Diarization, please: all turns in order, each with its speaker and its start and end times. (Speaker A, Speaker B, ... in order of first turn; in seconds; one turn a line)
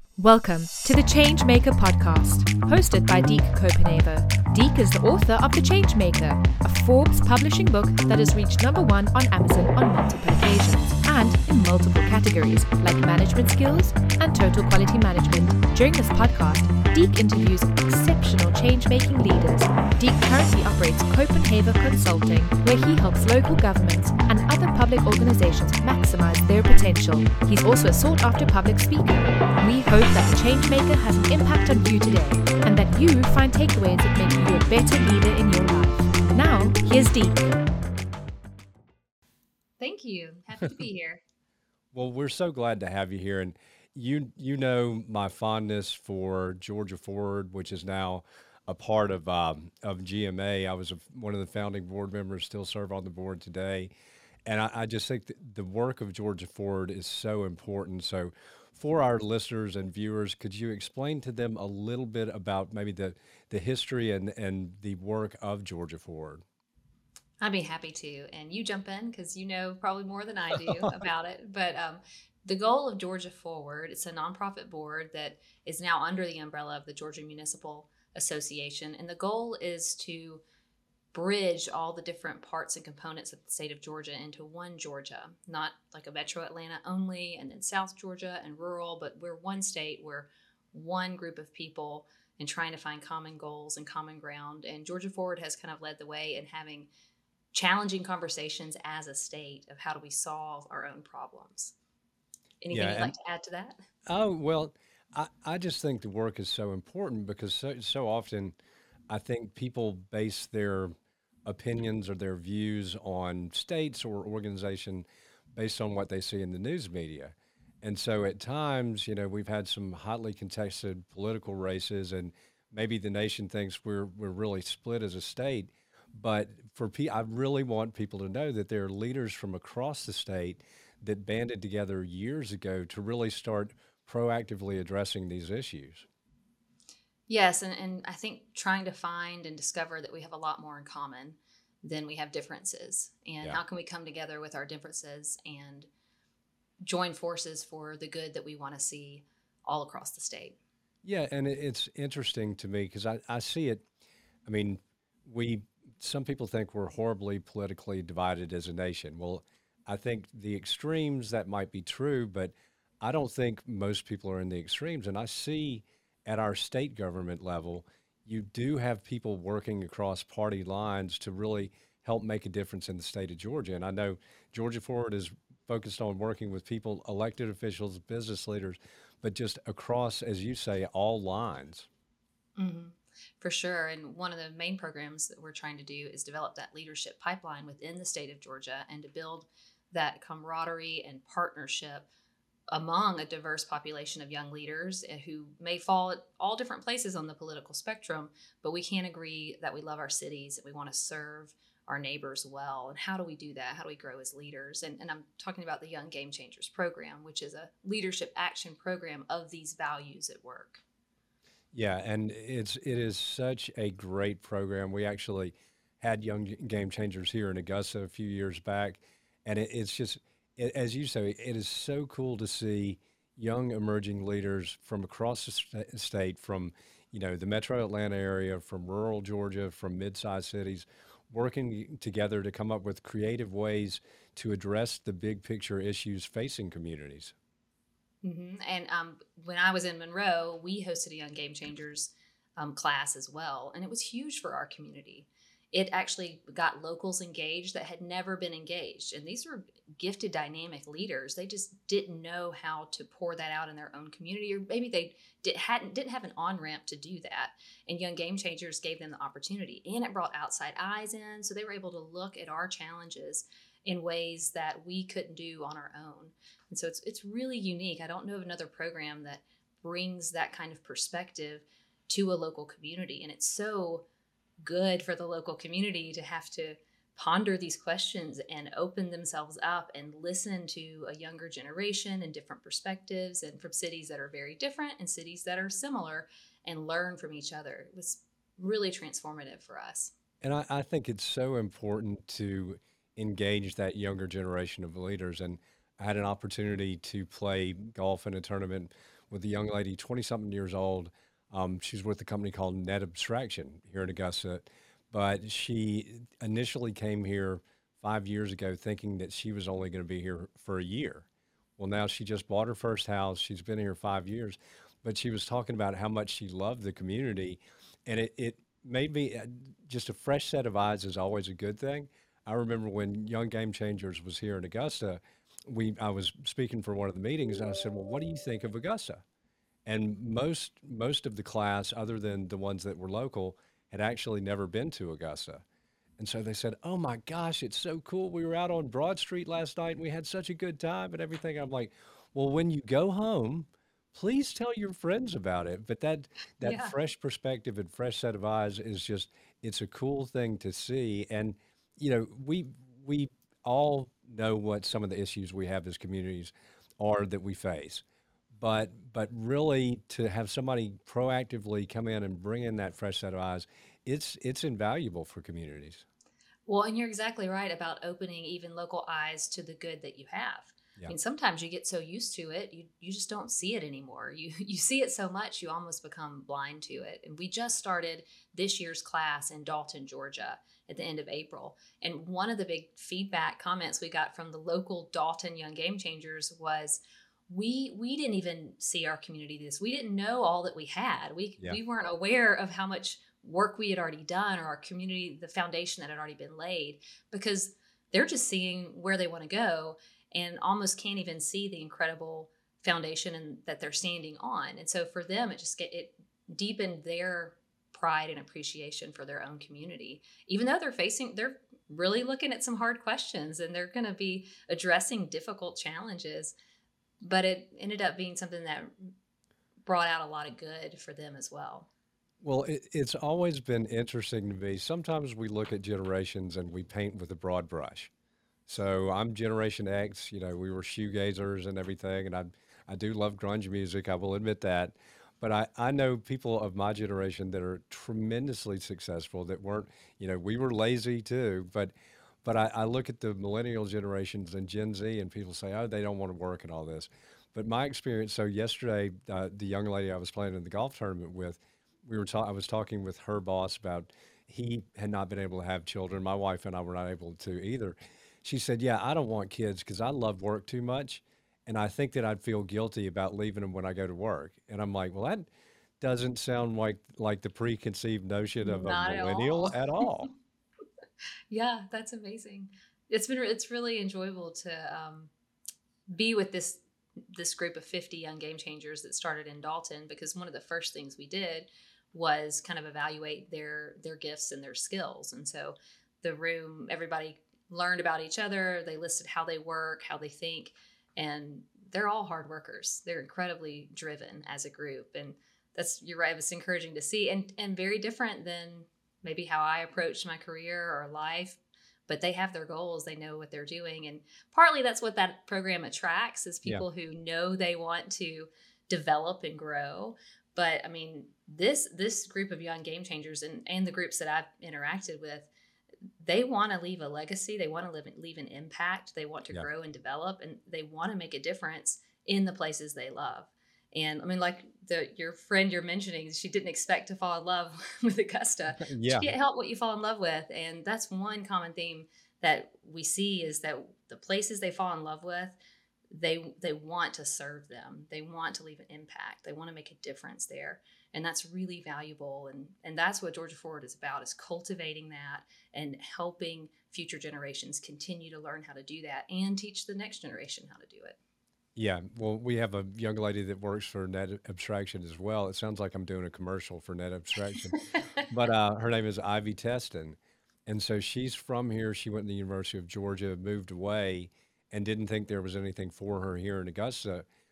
Speaker A: 0.2-37.5
Speaker B: 39.8-41.2
Speaker C: 41.9-53.9
Speaker C: 54.5-66.4
Speaker B: 67.4-80.4
Speaker B: 81.1-96.9
Speaker B: 97.5-101.7
Speaker B: 102.6-103.8
Speaker C: 102.7-103.1
Speaker C: 104.1-108.6
Speaker C: 109.1-110.9
Speaker C: 111.5-136.1
Speaker B: 137.3-145.9
Speaker B: 146.8-150.6
Speaker C: 151.0-153.8
Speaker C: 154.5-181.9
Speaker B: 182.6-192.1
Speaker B: 192.7-210.8
Speaker C: 211.7-237.3
Speaker B: 238.2-274.1
Speaker B: 274.6-290.1
Speaker C: 290.4-311.2
Speaker C: 311.8-329.2
Speaker C: 329.9-335.6
Speaker C: 336.2-358.0
Speaker B: 346.6-346.9
Speaker C: 358.5-366.1
Speaker B: 366.7-416.6
Speaker B: 417.2-419.1
Speaker B: 419.9-421.9
Speaker C: 422.4-428.1
Speaker C: 428.7-441.9
Speaker C: 442.4-465.5
Speaker C: 466.0-470.3
Speaker B: 468.6-470.0
Speaker B: 471.5-475.3
Speaker B: 476.1-515.5
Speaker B: 516.2-535.6
Speaker C: 528.8-529.3
Speaker B: 536.1-551.2
Speaker C: 551.8-567.2
Speaker B: 557.7-558.2